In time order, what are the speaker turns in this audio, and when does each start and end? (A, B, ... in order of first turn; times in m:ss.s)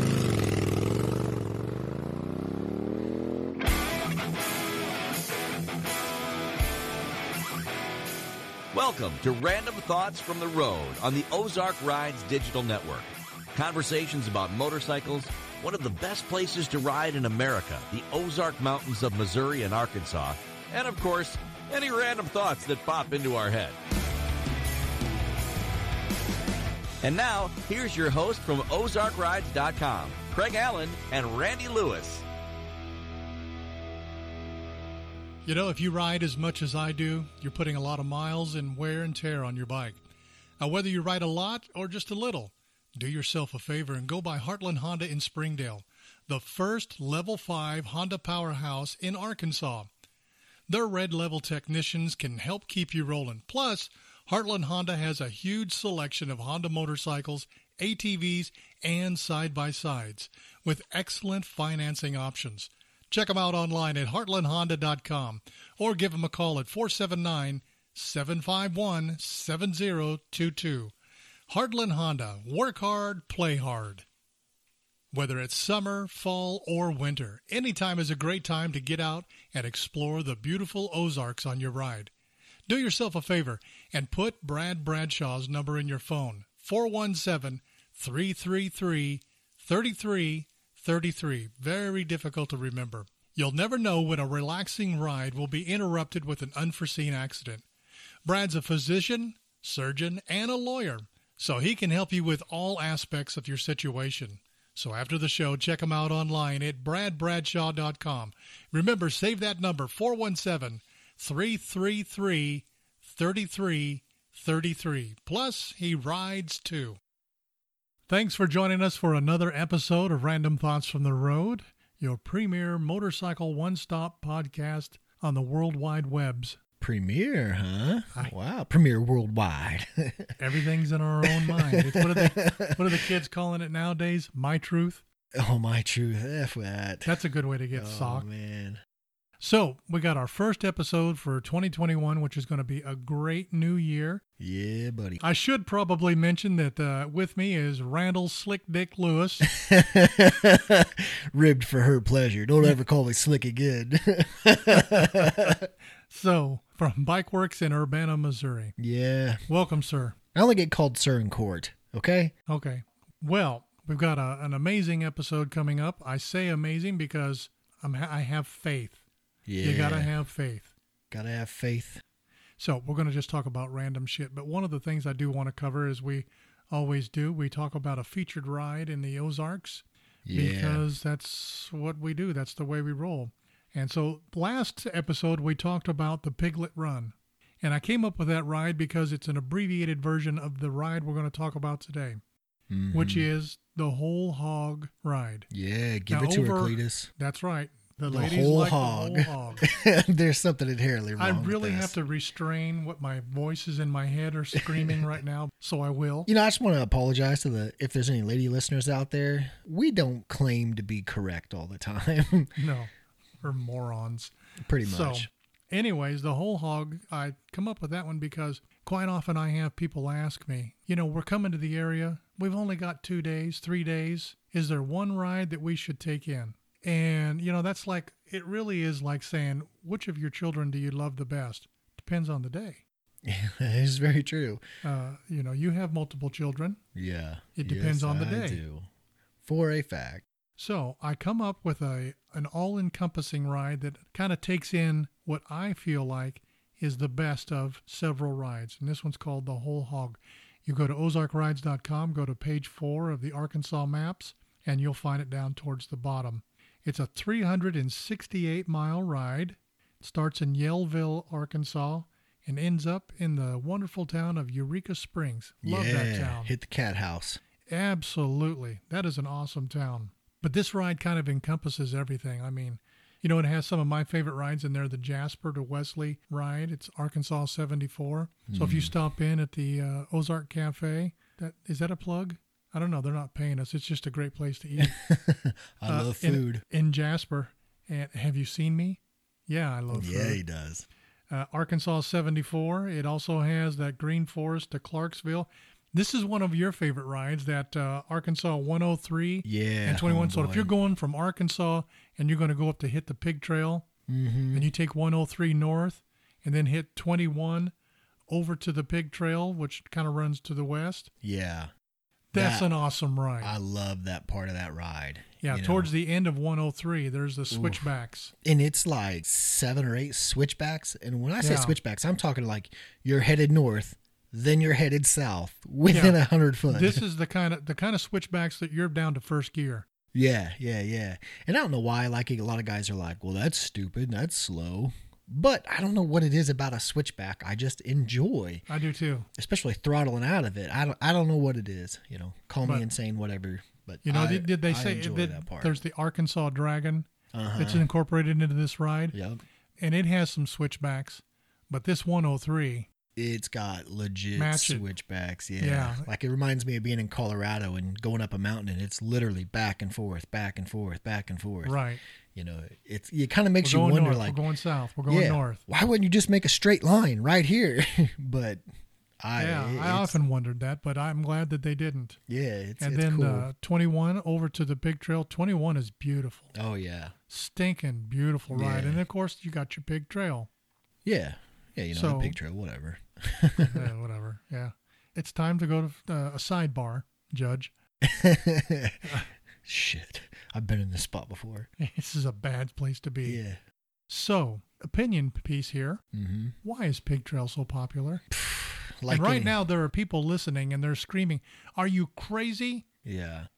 0:08.7-0:23.8 A
0:27.0-0:32.2 A
0:35.4-0:40.0 B
0:40.6-0:49.9 B
0:50.7-1:10.9 B
1:11.5-1:14.0 B
1:15.1-1:22.1 B
1:22.7-1:37.6 B
1:38.2-1:57.0 B
1:58.1-2:06.6 B
2:06.8-2:10.4 C
2:10.4-2:15.0 B
2:11.2-2:13.0 C
2:15.3-2:17.1 C
2:17.0-2:18.3 B
2:17.7-2:18.8 C
2:19.4-2:24.2 B
2:24.4-2:25.2 C
2:25.2-2:29.5 B
2:29.4-2:35.7 C
2:34.7-2:35.6 B
2:36.1-2:38.7 B
2:38.8-2:39.4 C
2:39.5-2:40.2 B
2:40.3-2:42.3 C
2:42.5-2:49.0 B
2:49.4-2:50.1 C
2:49.6-2:50.7 B
2:51.1-2:52.0 C
2:52.6-3:12.2 B
3:00.2-3:00.8 C
3:12.7-3:13.3 C
3:12.9-3:15.5 B
3:15.5-3:17.1 C
3:16.1-3:19.7 B
3:18.1-3:21.9 C
3:21.2-3:26.3 B
3:24.5-3:25.0 C
3:26.3-3:32.5 C
3:32.6-3:32.9 B
3:33.4-3:52.8 B
3:34.6-3:35.3 C
3:53.2-3:54.6 C
3:54.8-3:56.8 B
3:56.9-3:58.9 C
3:57.6-3:58.6 B
3:59.4-4:00.2 C
4:00.6-4:26.5 B
4:25.6-4:27.4 C
4:27.7-4:45.0 B
4:38.5-4:38.9 C
4:44.8-4:46.6 C
4:45.9-4:50.4 B
4:49.9-4:50.9 C
4:51.3-5:03.8 B
4:59.4-5:00.7 C
5:04.1-5:04.7 C
5:04.5-5:07.7 B
5:08.3-5:11.1 B
5:11.2-5:11.7 C
5:12.3-5:13.5 B
5:12.3-5:12.7 C
5:13.4-5:15.9 C
5:15.4-5:18.3 B
5:17.5-5:17.8 C
5:18.4-5:27.0 C
5:21.4-5:21.8 B
5:25.9-5:26.2 B
5:26.7-5:29.8 B
5:30.1-5:38.6 C
5:38.7-5:39.3 B
5:39.4-5:45.8 C
5:44.0-5:49.2 B
5:47.3-5:47.8 C
5:49.1-5:49.4 C
5:49.8-5:52.9 B
5:53.2-6:01.8 C
5:54.4-5:54.8 B
5:55.6-5:56.0 B
6:01.6-6:02.0 B
6:02.3-6:04.4 C
6:03.6-6:05.6 B
6:05.1-6:08.6 C
6:09.2-6:10.2 C
6:09.4-6:12.2 B
6:12.3-6:13.5 C
6:12.8-6:16.5 B
6:16.5-6:17.1 C
6:17.3-6:20.5 B
6:18.5-6:19.0 C
6:21.0-6:23.9 C
6:21.9-6:22.4 B
6:23.5-6:27.7 B
6:28.0-6:31.7 C
6:31.8-6:33.4 B
6:33.2-6:33.6 C
6:34.1-6:36.0 B
6:36.1-6:36.6 C
6:36.6-6:38.2 B
6:38.3-6:39.6 C
6:39.1-6:42.8 B
6:43.0-6:43.5 C